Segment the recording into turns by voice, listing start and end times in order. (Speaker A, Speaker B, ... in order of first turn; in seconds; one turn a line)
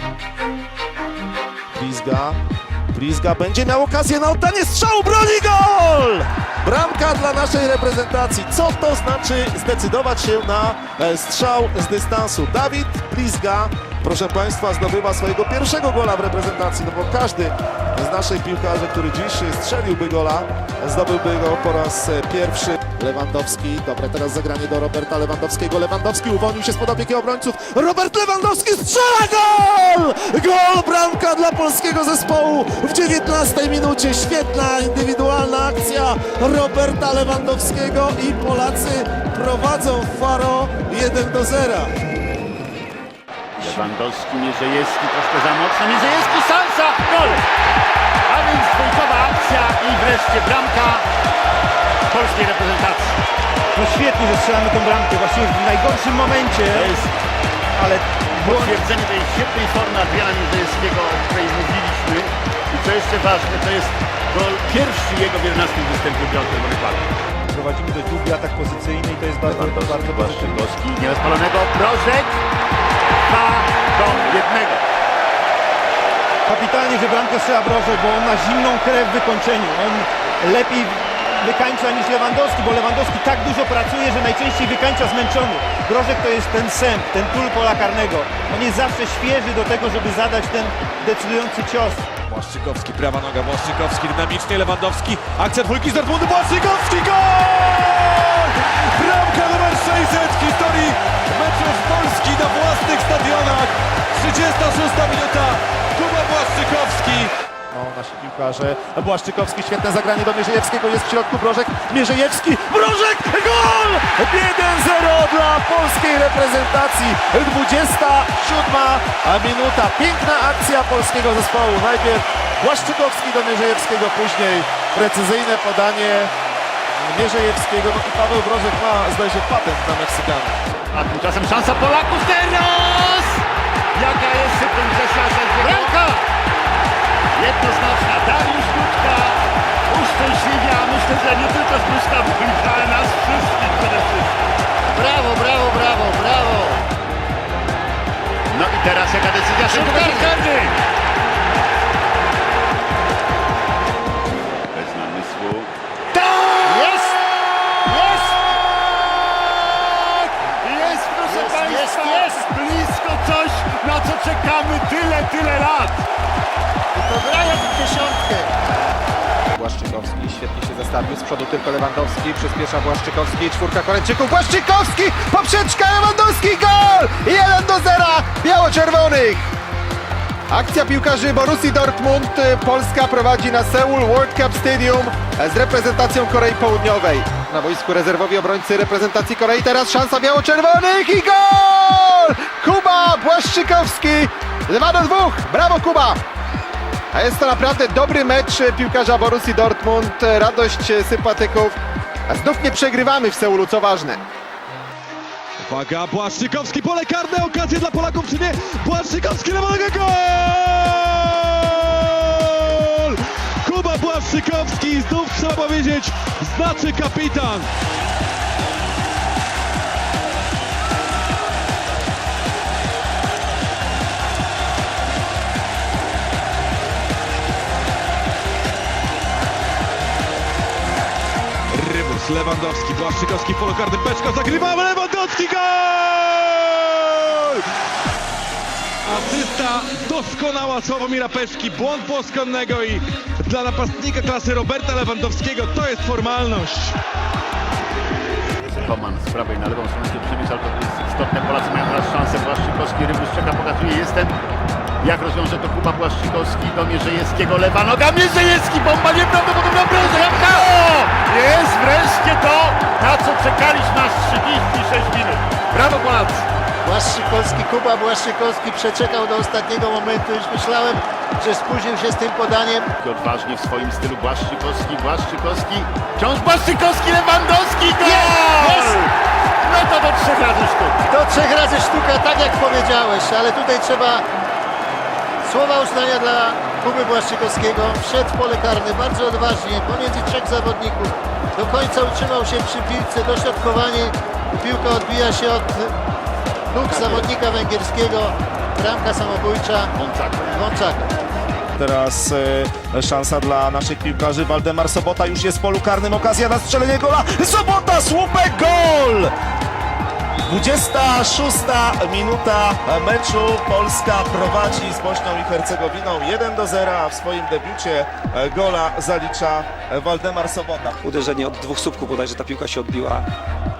Speaker A: 1.7-2.4
Speaker A: 2.9-41.9
Speaker B: 43.6-47.4
Speaker B: 48.3-51.0
Speaker B: 52.1-53.2
Speaker C: 53.7-57.0
Speaker B: 56.7-57.1
Speaker C: 57.7-58.8
Speaker B: 58.4-67.1
Speaker C: 67.5-70.6
Speaker B: 69.5-72.4
Speaker B: 73.2-74.8
Speaker C: 76.5-92.1
Speaker D: 92.3-107.3
Speaker A: 107.7-126.3
Speaker A: 126.9-130.5
Speaker B: 130.9-133.4
Speaker B: 133.9-135.9
Speaker E: 135.6-136.2
Speaker B: 137.3-144.3
Speaker E: 144.9-146.8
Speaker B: 148.5-150.7
Speaker E: 149.6-150.4
Speaker B: 154.7-155.7
Speaker E: 156.1-157.2
Speaker B: 156.5-157.0
Speaker E: 157.8-158.4
Speaker B: 157.9-158.2
Speaker B: 158.8-166.0
Speaker E: 160.8-162.4
Speaker E: 166.9-168.5
Speaker F: 169.5-179.5
Speaker F: 180.5-196.2
Speaker F: 197.1-204.2
Speaker D: 205.6-217.7
Speaker D: 231.7-237.6
Speaker D: 239.0-247.0
Speaker B: 248.7-254.3
Speaker B: 255.0-266.4
Speaker E: 266.8-272.9
Speaker B: 273.0-281.0
Speaker E: 278.0-279.0
Speaker E: 281.1-284.2
Speaker E: 285.4-295.9
Speaker E: 296.7-299.9
Speaker B: 296.8-297.3
Speaker B: 299.9-300.5
Speaker E: 300.5-301.1
Speaker A: 301.8-309.3
Speaker A: 310.4-321.0
Speaker G: 321.0-323.3